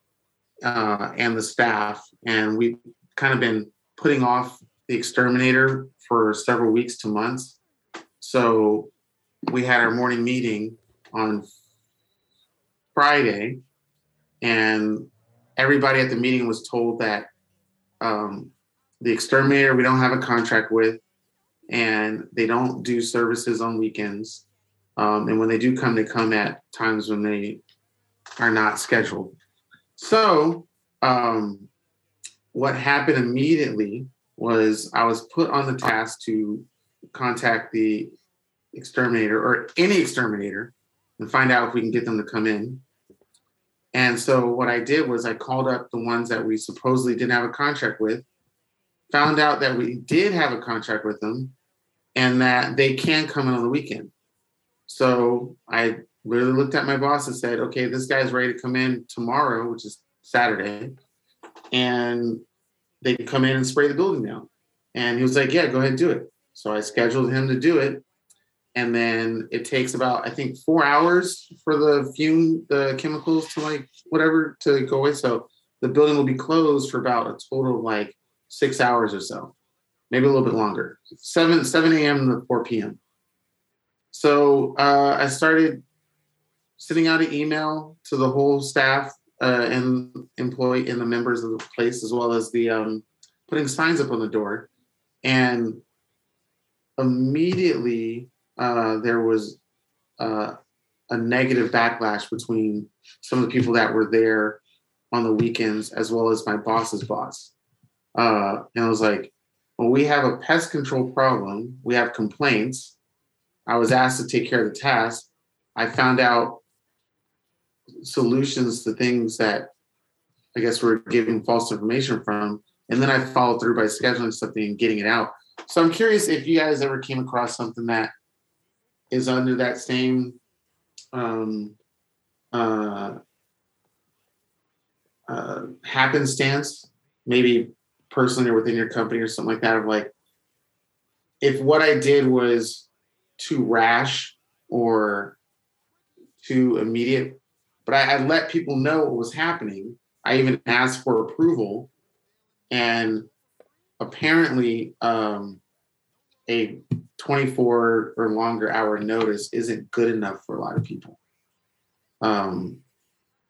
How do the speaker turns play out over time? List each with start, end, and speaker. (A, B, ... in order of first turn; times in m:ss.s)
0:00.6-0:07.6 A
0:08.2-0:08.9 A
0:09.5-0:11.5 A
0:12.9-0:13.6 A
0:14.4-0:17.3 A
0:18.0-0:21.0 A
0:21.7-0:24.4 A
0:25.0-0:27.6 A
0:28.4-0:29.4 A
0:30.0-0:31.7 A
0:32.5-0:38.1 A
0:38.7-0:42.8 A
0:43.9-0:48.2 A
0:49.1-0:51.5 A
0:52.1-0:54.1 A
0:54.9-1:00.9 A
1:01.7-1:02.4 A
1:03.0-1:08.0 A
1:08.7-1:19.5 A
1:20.1-1:23.0 A
1:24.1-1:25.8 A
1:26.8-1:34.7 A
1:35.2-1:35.8 A
1:37.0-1:39.6 A
1:40.2-1:40.6 A
1:41.1-1:44.6 A
1:45.1-1:47.5 A
1:48.1-1:53.0 A
1:53.7-1:56.6 A
1:58.0-1:59.7 A
2:00.5-2:08.1 A
2:09.1-2:10.4 A
2:11.1-2:11.8 A
2:12.5-2:13.2 A
2:15.3-2:20.1 A
2:21.4-2:25.4 A
2:26.4-2:31.9 A
2:32.7-2:33.3 A
2:34.0-2:35.6 A
2:36.5-2:41.2 A
2:42.2-2:42.8 A